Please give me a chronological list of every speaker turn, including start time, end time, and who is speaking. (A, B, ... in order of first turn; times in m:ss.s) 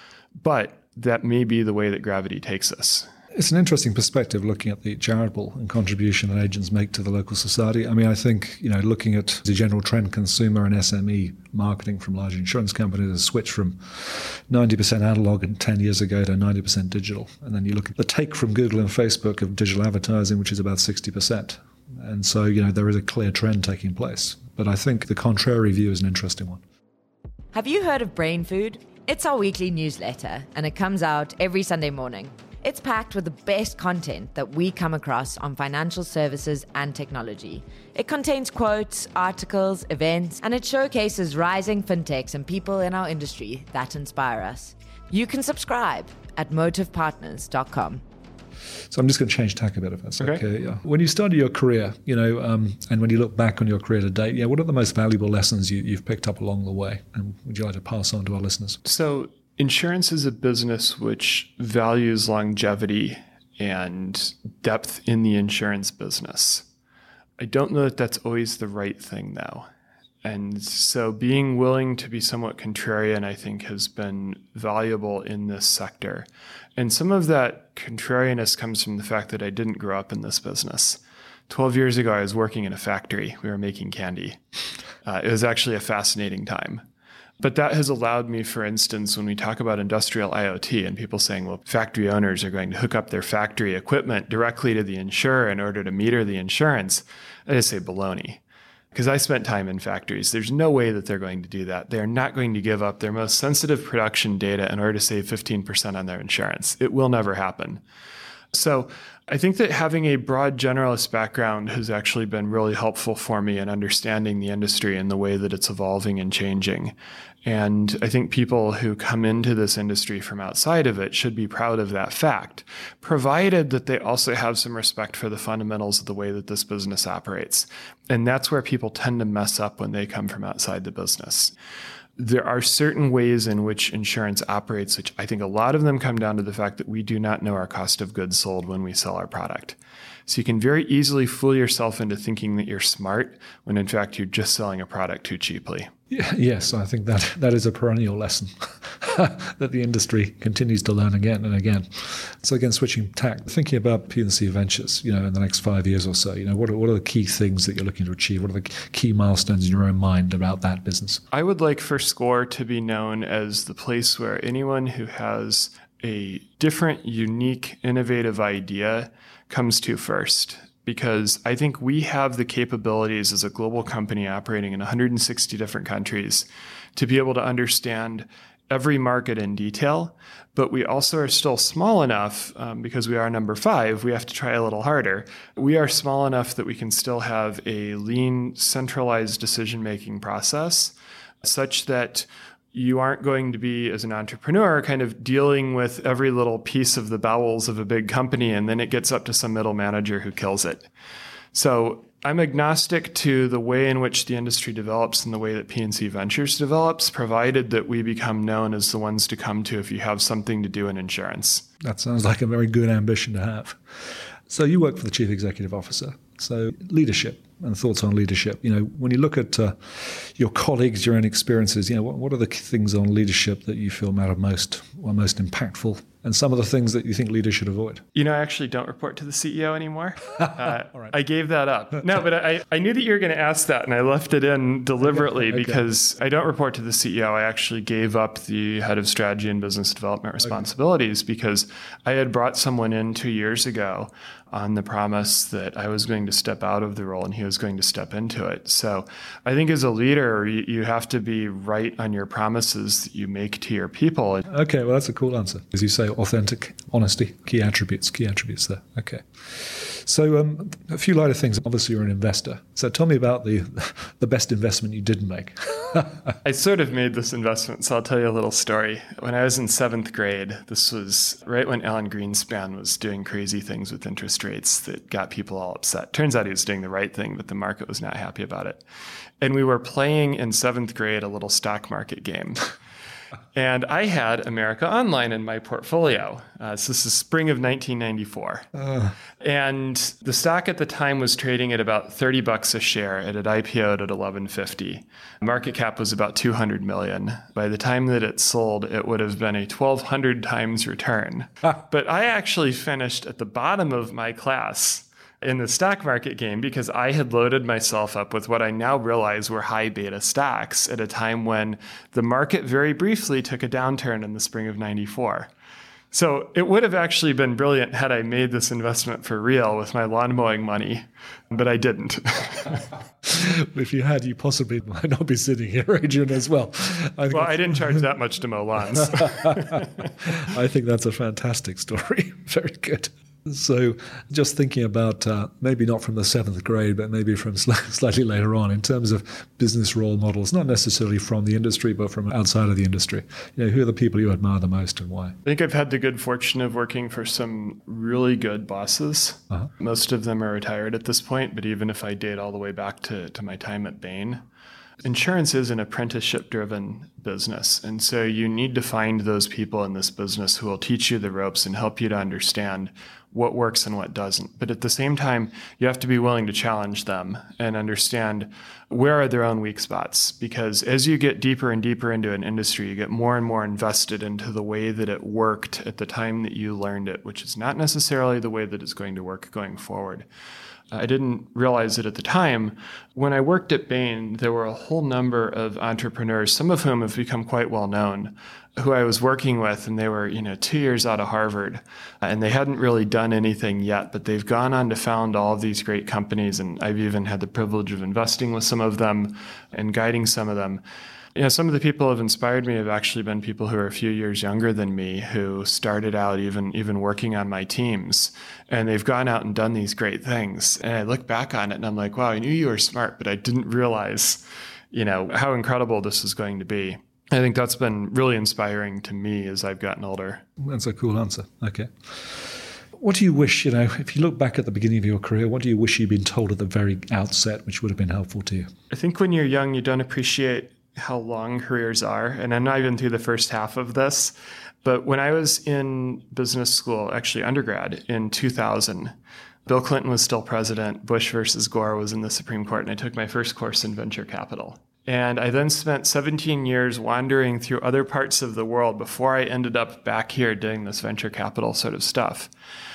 0:00.4-0:03.1 A
0:03.3-0:26.6 B
0:27.5-0:48.0 C
0:48.9-0:58.8 B
0:50.2-0:50.4 A
0:58.8-1:06.7 A
1:07.4-1:09.7 A
1:10.2-1:24.4 A
1:25.0-1:26.8 A
1:27.4-1:38.4 A
1:38.9-1:47.8 A
1:48.5-2:11.5 A
2:12.2-2:25.9 A
2:26.1-2:41.2 B
2:41.3-3:20.9 A
3:21.5-3:31.7 A
3:31.8-3:48.0 B
3:48.1-4:14.5 A
3:55.0-3:55.8 B
4:14.5-4:26.2 B
4:26.4-4:38.8 A
4:39.4-4:42.7 A
4:43.5-4:48.6 A
4:48.8-4:49.1 B
4:49.4-5:15.5 A
5:16.1-5:22.9 A
5:23.2-5:28.0 B
5:27.3-5:30.0 A
5:29.1-5:45.4 B
5:45.4-5:54.4 A
5:55.0-6:20.3 A
6:20.9-6:40.8 A
6:41.4-7:00.4 A
7:00.6-7:08.7 B
7:08.9-7:19.1 A
7:19.6-7:32.5 A